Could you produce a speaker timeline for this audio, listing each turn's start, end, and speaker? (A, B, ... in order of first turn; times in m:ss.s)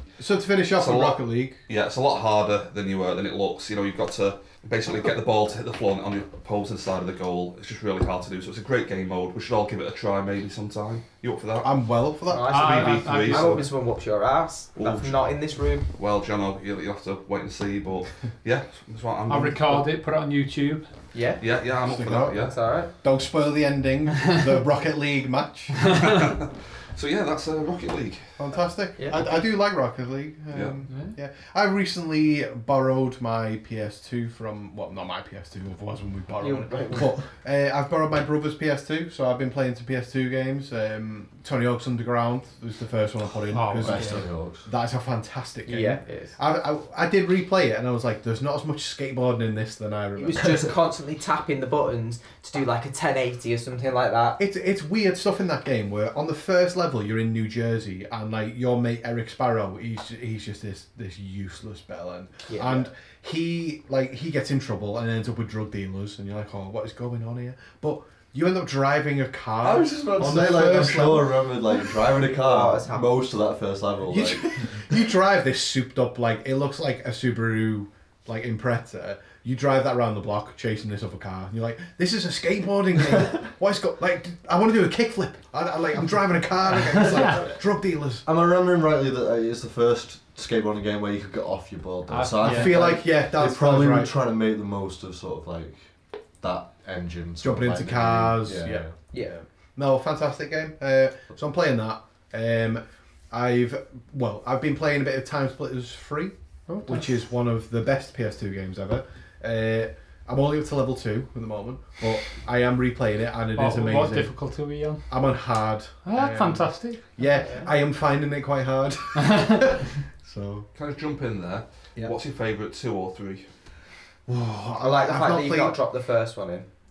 0:00.2-0:01.6 A
0:00.8-0:11.8 B
0:11.6-0:12.9 A
0:12.3-0:15.9 C
0:12.5-0:13.6 D
0:12.5-0:13.7 B
0:14.8-0:15.3 B
0:15.9-0:19.8 B
0:19.3-0:20.8 D
0:21.1-0:21.4 C
0:21.4-0:22.6 B
0:21.9-0:22.4 A
0:22.3-0:22.9 C
0:23.0-0:25.9 A
0:25.9-0:28.3 B
0:28.4-0:50.7 A
0:29.0-0:29.4 C
0:30.9-0:31.1 D
0:36.4-0:37.2 C
0:43.5-0:44.2 D
0:43.8-0:44.7 E
0:45.6-0:46.4 C
0:50.2-0:54.4 C
0:54.4-1:11.6 A
1:02.4-1:02.9 C
1:09.6-1:14.8 E
1:12.3-1:13.2 C
1:14.0-1:28.2 A
1:26.8-1:27.4 D
1:28.2-1:38.9 E
1:32.1-1:32.9 D
1:32.4-1:34.1 A
1:37.4-1:54.3 A
1:46.7-1:47.1 D
1:53.6-1:55.1 D
1:55.1-2:00.7 A
1:56.0-1:57.1 D
1:57.3-1:57.7 C
1:59.2-1:59.6 D
2:00.7-2:03.5 B
2:04.3-2:05.8 A
2:04.8-2:06.7 C